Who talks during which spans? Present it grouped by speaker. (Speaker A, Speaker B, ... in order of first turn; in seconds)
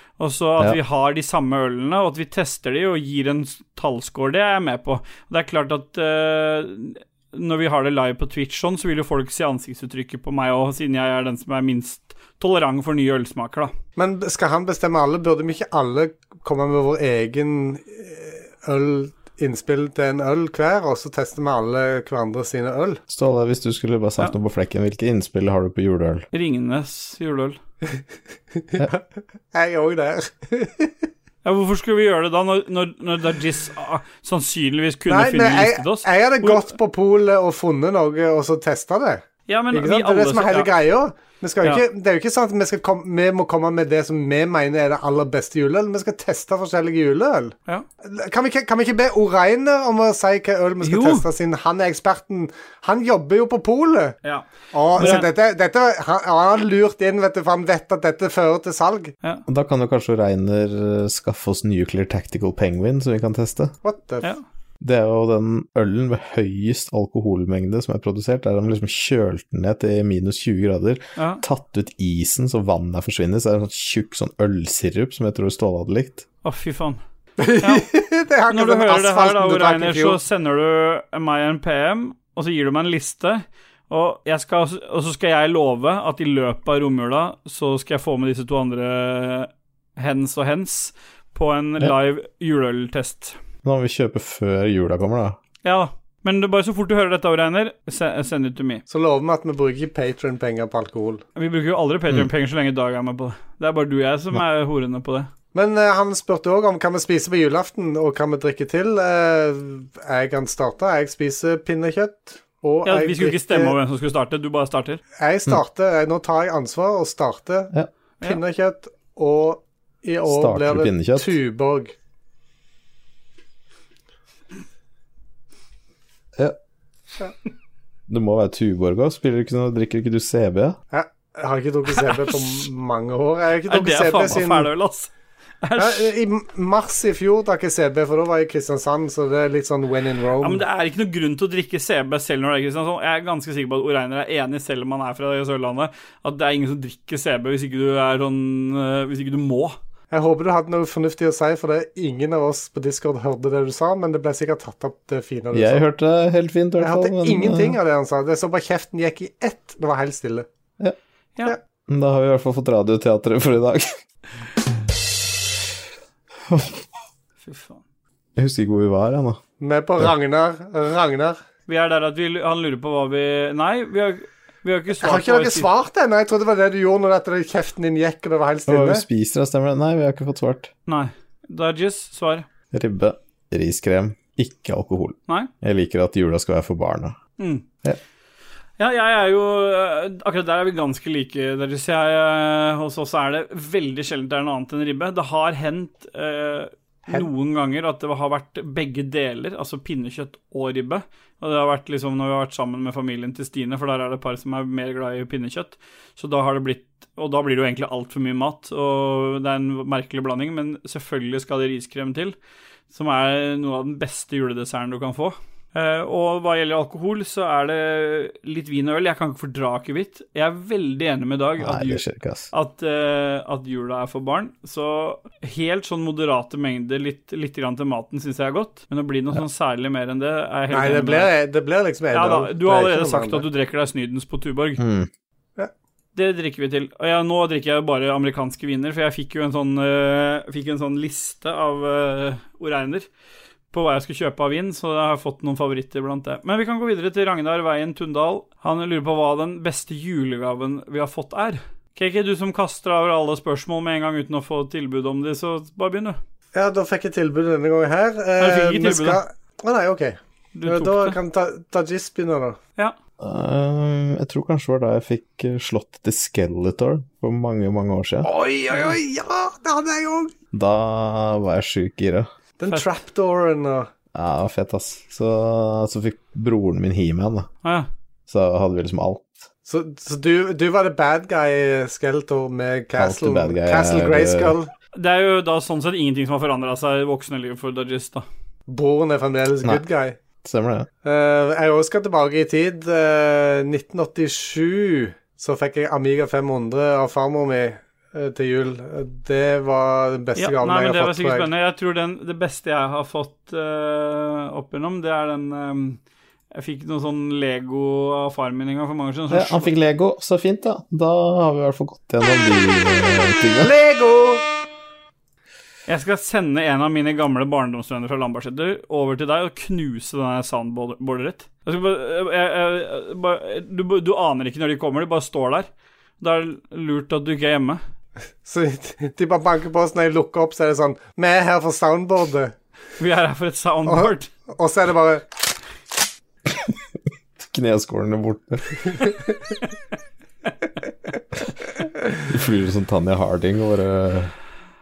Speaker A: 0.2-13.7, 26.3-27.6, 31.4-36.7, 39.5-40.7, 50.8-51.2, 54.2-55.3, 71.2-71.4, 76.4-77.0, 78.5-93.4, 95.6-98.8, 101.3-105.3, 112.8-115.0, 132.0-132.5, 133.7-135.1, 135.6-136.1, 140.4-149.8, 167.4-167.8, 171.7-175.7, 180.9-182.5, 187.4-187.7, 188.8-212.3, 212.9-231.3, 232.1-234.8, 236.2-243.1, 243.7-256.2, 258.4-259.2, 260.5-261.1, 284.9-288.2, 300.4-306.0, 306.5-309.7, 315.9-325.7, 326.2-327.8, 333.0-334.3
Speaker B: 14.0-23.0, 28.6-31.1, 35.1-54.1, 54.7-59.1, 63.8-64.3, 77.4-80.2, 98.9-101.2, 105.5-113.7, 115.2-121.9, 130.9-134.7, 135.8-140.6, 150.1-155.8, 156.8-160.5, 169.6-171.4, 175.0-179.0, 230.7-233.4, 256.5-262.6, 268.2-270.3, 272.6-273.9, 279.6-284.7, 288.7-290.2, 291.0-301.5, 313.6-314.4, 328.4-332.5, 333.9-335.2
Speaker C: 23.1-26.3, 59.5-63.7, 64.8-76.2, 93.6-95.4, 120.3-121.3, 128.1-130.8, 155.5-157.8, 161.9-163.9, 166.5-166.8, 168.3-169.4, 178.7-180.7, 182.7-187.2, 221.6-222.5, 234.8-235.1, 263.2-268.3, 270.5-272.3, 274.1-277.5, 278.3-279.3, 283.0-284.5, 290.4-290.9, 309.3-313.7, 336.5-336.8, 337.4-339.1, 342.3-344.3